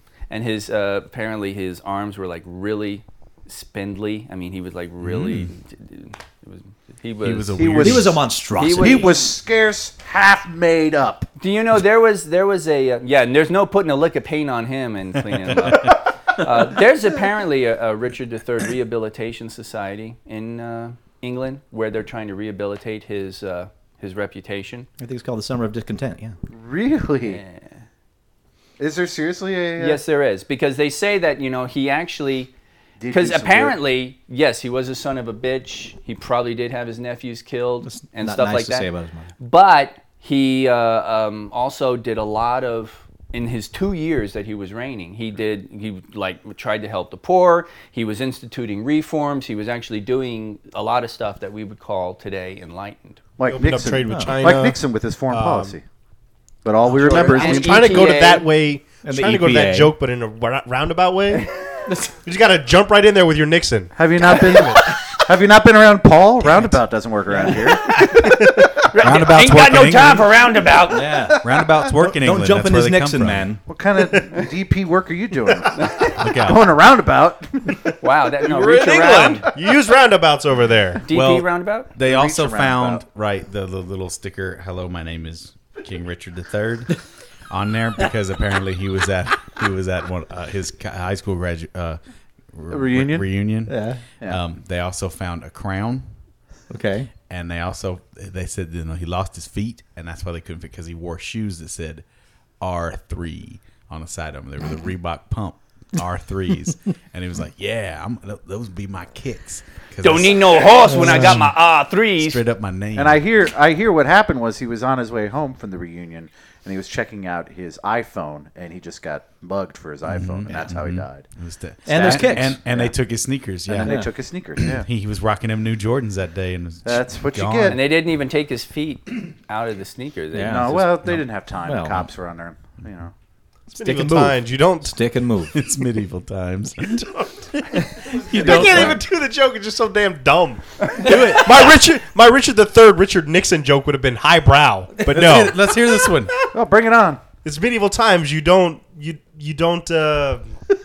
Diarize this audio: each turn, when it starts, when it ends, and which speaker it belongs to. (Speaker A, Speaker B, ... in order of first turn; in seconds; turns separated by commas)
Speaker A: 0.3-7.8, Speaker B: 5.0-5.5, Speaker B: 7.2-8.2, Speaker C: 7.6-11.3, Speaker D: 7.8-9.1, Speaker A: 8.6-9.2, Speaker A: 11.4-24.9, Speaker D: 25.0-26.4, Speaker C: 26.5-27.4, Speaker A: 27.3-27.6, Speaker C: 28.8-30.0, Speaker A: 29.8-32.5, Speaker C: 33.0-33.8, Speaker A: 33.1-38.9, Speaker D: 37.9-39.3, Speaker A: 39.4-53.2, Speaker C: 53.4-55.8, Speaker E: 53.5-55.8, Speaker D: 54.1-54.4, Speaker C: 56.6-58.1, Speaker A: 57.0-58.5, Speaker E: 57.0-61.5, Speaker D: 59.0-59.9, Speaker E: 62.2-64.8, Speaker C: 64.0-68.0, Speaker A: 67.8-71.3, Speaker B: 69.0-70.3, Speaker D: 70.9-73.6, Speaker B: 71.4-73.6, Speaker C: 73.7-77.8, Speaker B: 76.2-76.7, Speaker A: 78.0-79.5, Speaker E: 78.4-81.1, Speaker A: 81.0-81.9, Speaker B: 81.1-87.0, Speaker C: 82.0-83.0, Speaker B: 87.5-92.0, Speaker B: 92.5-96.1, Speaker C: 92.7-93.5, Speaker D: 93.7-94.0, Speaker D: 96.7-97.1, Speaker B: 97.2-102.0, Speaker B: 102.6-111.5, Speaker A: 110.0-112.4, Speaker D: 110.9-111.4, Speaker B: 112.2-113.2, Speaker C: 113.0-121.3, Speaker B: 120.1-127.8, Speaker D: 121.9-122.6, Speaker C: 121.9-122.9, Speaker C: 123.7-124.9, Speaker D: 123.8-124.1, Speaker C: 126.8-127.8, Speaker A: 127.7-130.9, Speaker D: 130.3-132.1, Speaker C: 130.4-133.1, Speaker D: 133.7-135.6, Speaker E: 133.7-135.0, Speaker B: 135.5-139.0, Speaker E: 138.1-146.4, Speaker D: 138.4-139.0, Speaker B: 141.0-141.6, Speaker B: 145.1-146.3, Speaker C: 146.5-147.2, Speaker E: 147.4-150.5